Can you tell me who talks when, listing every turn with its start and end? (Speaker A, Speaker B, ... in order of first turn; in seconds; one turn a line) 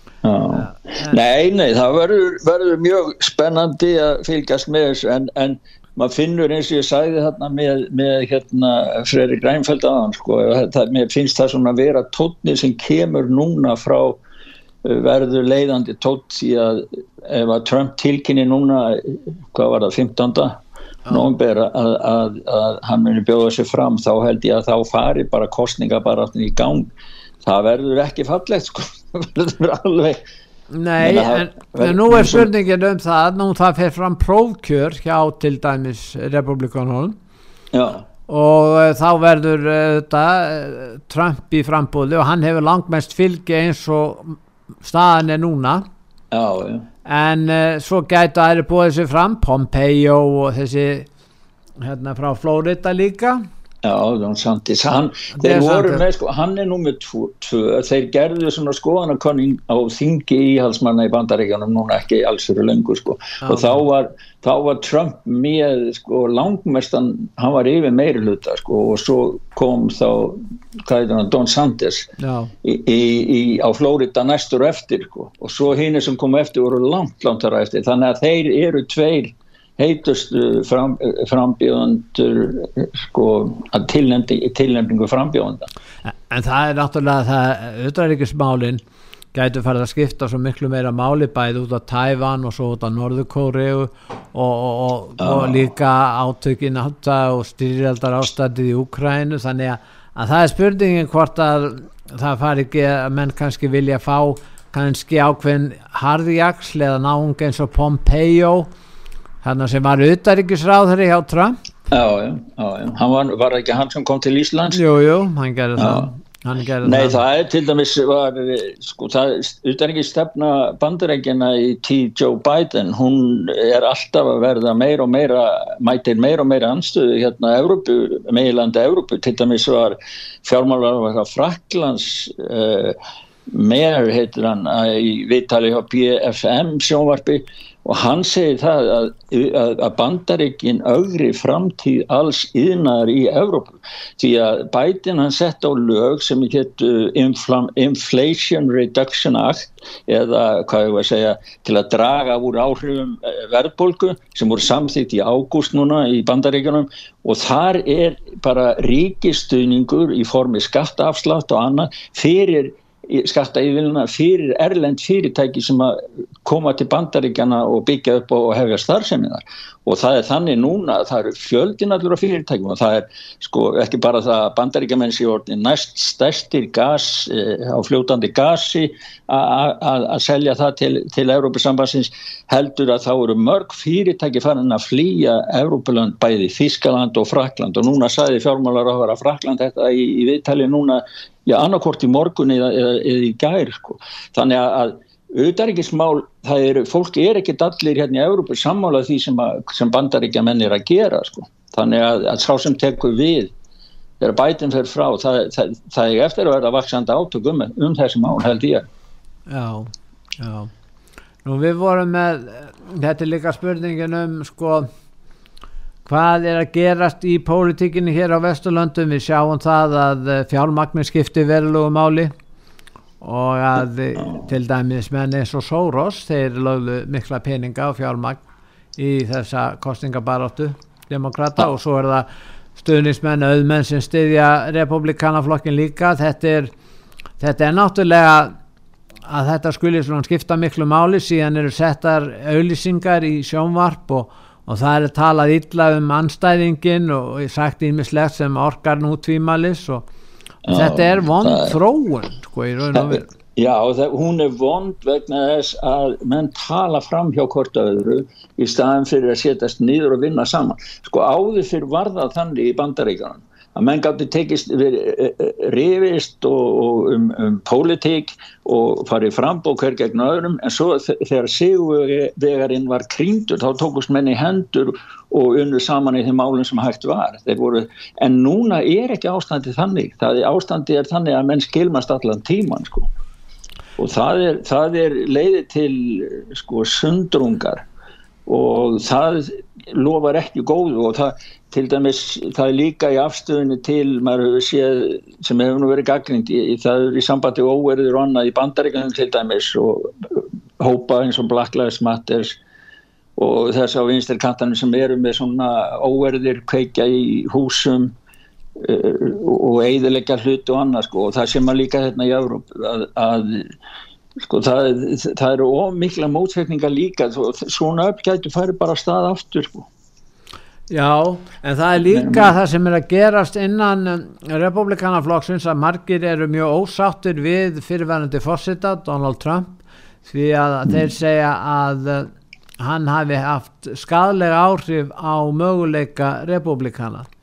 Speaker A: 0.2-14.2
Speaker B: 0.5-1.2
Speaker A: 14.8-26.9
Speaker A: 27.4-30.2
Speaker B: 30.7-37.1
Speaker A: 31.0-32.5
Speaker A: 37.7-38.1
Speaker B: 38.3-45.8
Speaker A: 46.3-46.9
Speaker B: 47.0-51.1
Speaker B: 51.8-53.4
Speaker A: 53.8-72.1
Speaker B: 55.3-56.0
Speaker B: 63.4-63.8
Speaker B: 72.2-72.5
Speaker A: 72.6-85.7
Speaker B: 86.0-88.8
Speaker B: 89.3-108.7
Speaker A: 95.2-95.7
Speaker B: 109.4-111.5
Speaker A: 111.9-114.8
Speaker B: 114.7-117.2
Speaker A: 115.8-116.1
Speaker A: 116.8-203.5
Speaker A: 204.2-208.9
Speaker B: 209.5-210.7
Speaker B: 211.4-214.9
Speaker B: 216.1-222.3
Speaker B: 223.2-228.4
Speaker B: 229.0-236.7
Speaker B: 237.4-238.5
Speaker B: 239.3-250.0
Speaker A: 250.6-251.8
Speaker B: 250.7-253.3
Speaker A: 252.9-283.1
Speaker A: 284.0-287.8
Speaker A: 288.4-302.6
Speaker A: 303.4-308.1
Speaker A: 308.8-313.7
Speaker A: 314.4-319.9
Speaker B: 320.9-337.3
Speaker A: 322.0-322.5